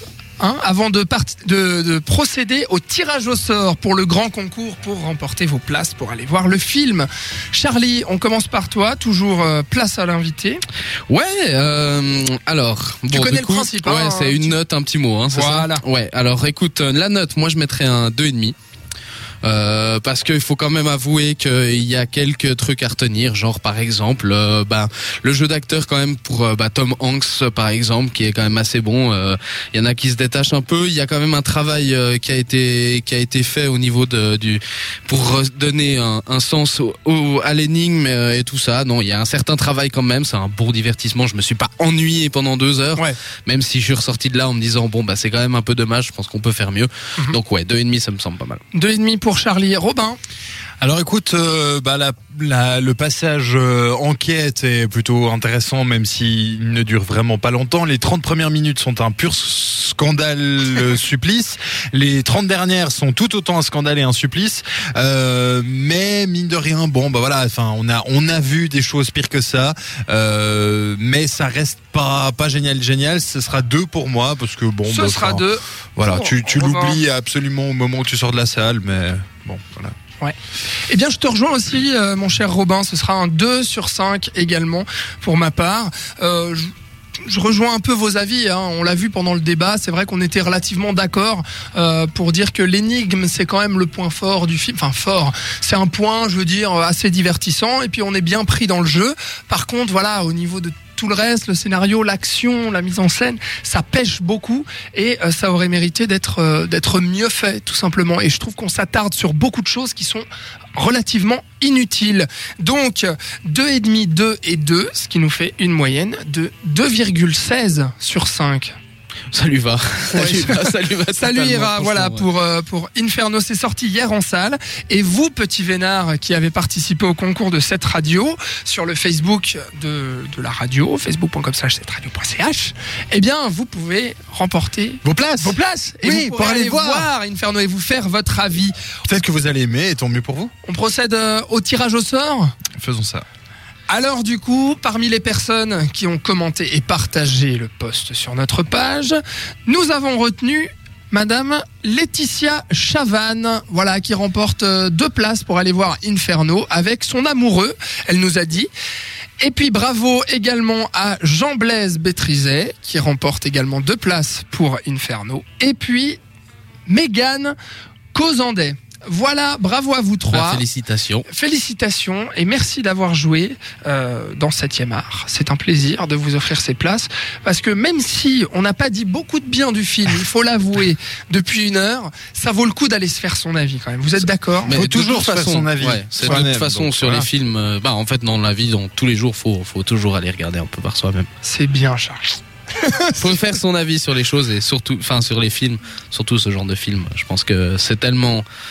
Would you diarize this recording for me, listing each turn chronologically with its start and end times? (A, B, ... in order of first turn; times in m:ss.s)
0:00.4-0:10.6 A
0:11.1-0:18.6 B
0:13.1-0:14.6 A
0:15.3-0:15.8 A
0:19.4-0:48.6 B
0:48.7-0:50.2 A
0:50.8-1:15.4 C
1:14.9-1:17.0 A
1:16.0-1:20.0 C
1:20.2-1:50.2 A
1:50.8-1:58.8 A
1:59.3-2:02.2 B
2:00.1-2:18.8 A
2:15.0-2:17.1 C
2:19.0-2:20.5 C
2:20.6-2:22.6 A
2:22.8-2:23.2 C
2:23.9-2:38.7 A
2:39.4-2:46.2 A
2:46.9-2:47.6 A
2:48.1-2:50.6 A
2:50.3-2:51.3 B
2:51.3-3:04.8 A
3:04.7-3:11.3 B
3:04.7-3:07.3 C
3:11.4-3:13.2 A
3:13.2-3:18.4 B